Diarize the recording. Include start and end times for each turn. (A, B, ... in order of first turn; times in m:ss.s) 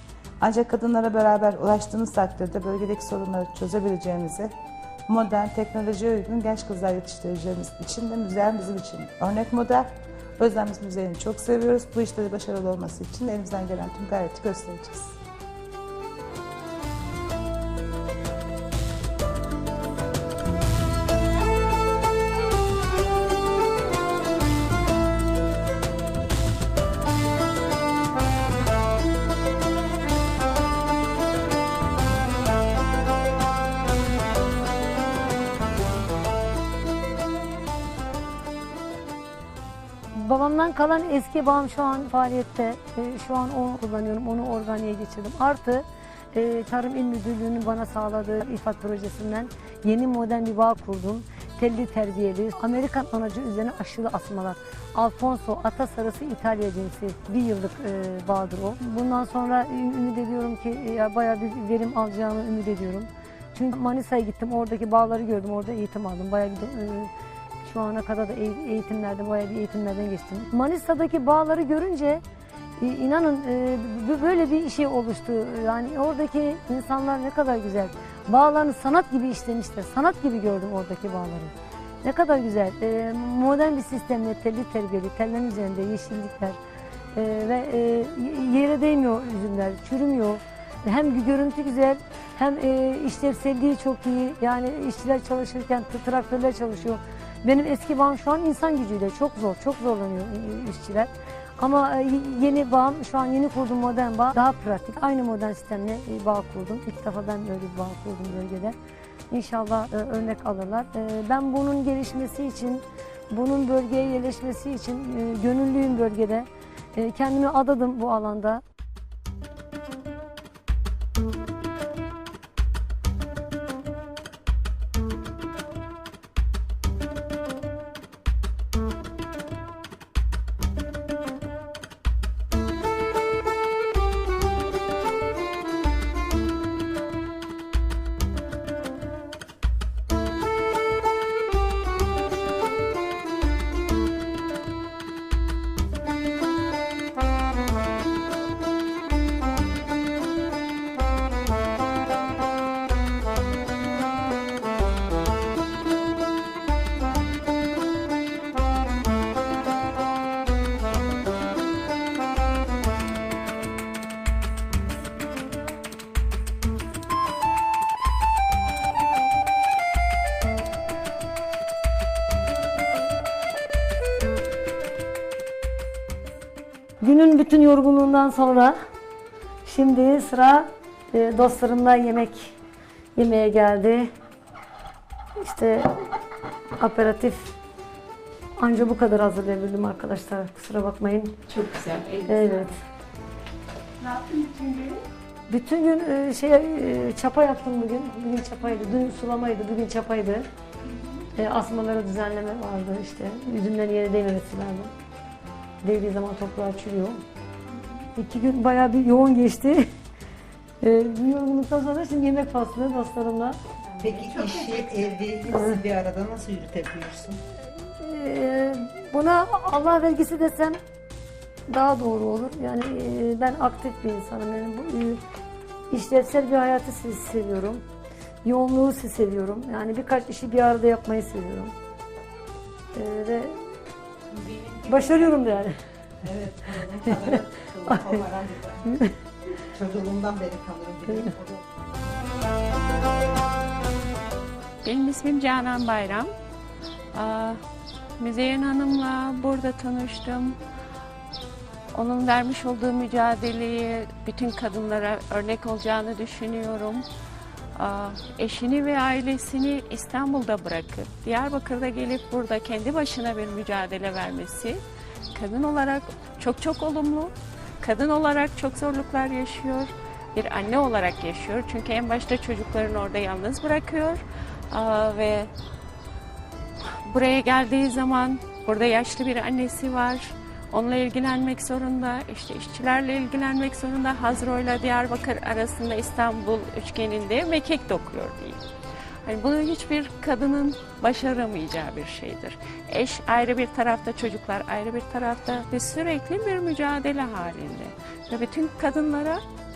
0:00.4-0:04.5 A
0:05.1-0:15.2 A
0:40.2-1:07.1 B
1:07.6-1:12.2 B
1:12.8-1:26.6 B
1:27.2-1:48.8 B
1:49.3-1:58.6 B
2:57.0-2:58.8 B
2:59.6-3:02.6 B
3:03.2-3:04.1 B
3:05.4-3:06.1 B
3:06.8-3:07.5 B
3:08.6-3:11.4 B
3:11.5-3:12.7 C
3:12.3-3:12.8 B
3:14.0-3:15.0 C
3:15.5-3:20.5 B
3:21.4-3:24.9 B
3:25.8-3:27.2 B
3:28.2-3:29.9 B
3:30.8-3:33.6 B
3:34.0-3:37.4 D
3:38.0-3:40.8 B
3:41.7-3:45.2 B
3:45.9-3:47.8 B
3:48.4-3:51.7 B
3:52.9-3:53.7 B
3:54.3-3:55.1 D
3:54.9-3:55.8 B
3:56.2-3:59.0 D
3:59.6-4:01.6 D
4:04.8-4:06.3 C
4:07.1-4:07.6 C
4:08.2-4:10.6 C
4:11.9-4:17.0 C
4:17.8-4:24.8 C
4:25.3-4:35.5 C
4:36.9-4:48.6 C
4:49.2-4:59.4 C